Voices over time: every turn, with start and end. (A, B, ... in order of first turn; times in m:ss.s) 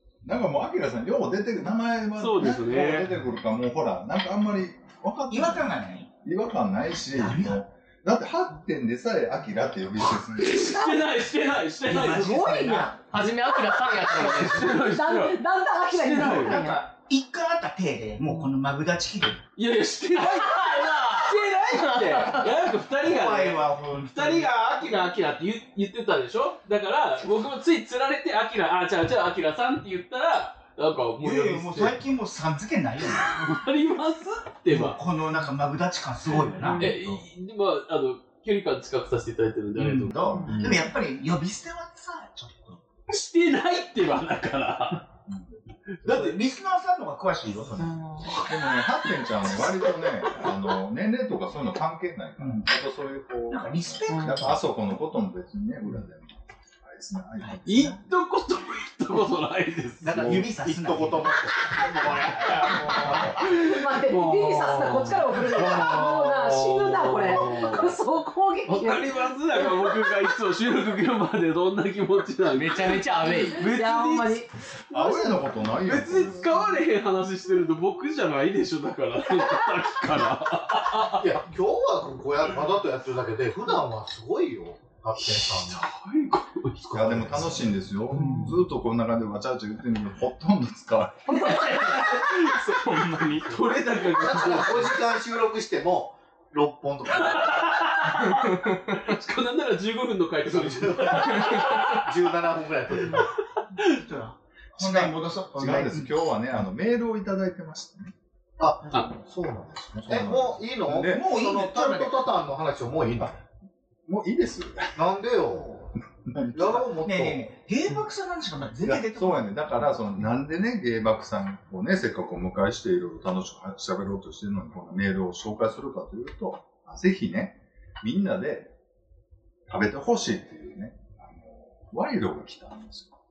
0:00.2-0:05.7 A
0:02.2-0:03.1 B
0:05.3-0:06.1 C
0:06.2-0:10.7 A
0:07.1-0:07.6 C
0:10.4-0:12.9 B
0:10.6-0:11.0 D
0:11.9-0:13.0 C
0:12.3-0:12.9 D
0:13.1-0:14.8 E
0:14.2-0:16.6 B
0:14.3-0:16.8 D
0:16.2-0:19.4 C
0:19.6-0:32.0 B
0:20.1-0:22.5 E
0:22.9-0:24.9 C
0:31.2-0:33.3 C
0:33.3-0:35.0 B
0:34.7-0:37.2 C
0:36.5-0:37.0 D
0:36.7-0:40.2 B
0:39.8-0:42.8 C
0:40.3-0:40.9 A
0:43.1-0:45.1 B
0:46.0-0:46.4 B
0:46.0-0:48.3 C
0:48.4-0:57.9 A
0:52.4-0:52.7 C
0:53.5-0:54.6 C
0:54.1-0:54.4 D
0:57.4-0:58.0 C
0:57.6-1:00.5 B
1:00.0-1:01.3 C
1:00.0-1:03.4 F
1:02.1-1:08.0 B
1:02.5-1:03.4 C
1:02.8-1:03.1 A
1:03.4-1:10.1 D
1:05.5-1:06.3 F
1:08.6-1:21.3 B
1:12.5-1:13.6 E
1:13.2-1:14.5 D
1:14.9-1:16.6 A
1:21.1-1:25.8 F
1:25.2-1:26.9 B
1:26.8-1:27.8 F
1:26.9-1:31.4 A
1:31.3-1:33.6 E
1:31.3-1:32.0 D
1:31.4-1:32.8 B
1:33.4-1:35.0 B
1:34.2-1:38.0 F
1:37.1-1:42.1 B
1:38.1-1:39.0 E
1:40.4-1:43.3 F
1:41.2-1:41.8 E
1:43.1-1:44.0 B
1:43.8-1:46.1 C
1:44.8-1:48.1 A
1:48.6-1:53.4 F
1:49.9-1:51.2 A
1:51.0-1:52.2 C
1:54.1-1:54.9 A
1:55.0-1:55.9 F
1:56.2-1:56.8 A
1:56.5-1:57.5 F
1:57.0-1:59.5 C
1:58.8-2:08.7 A
2:09.7-2:13.1 A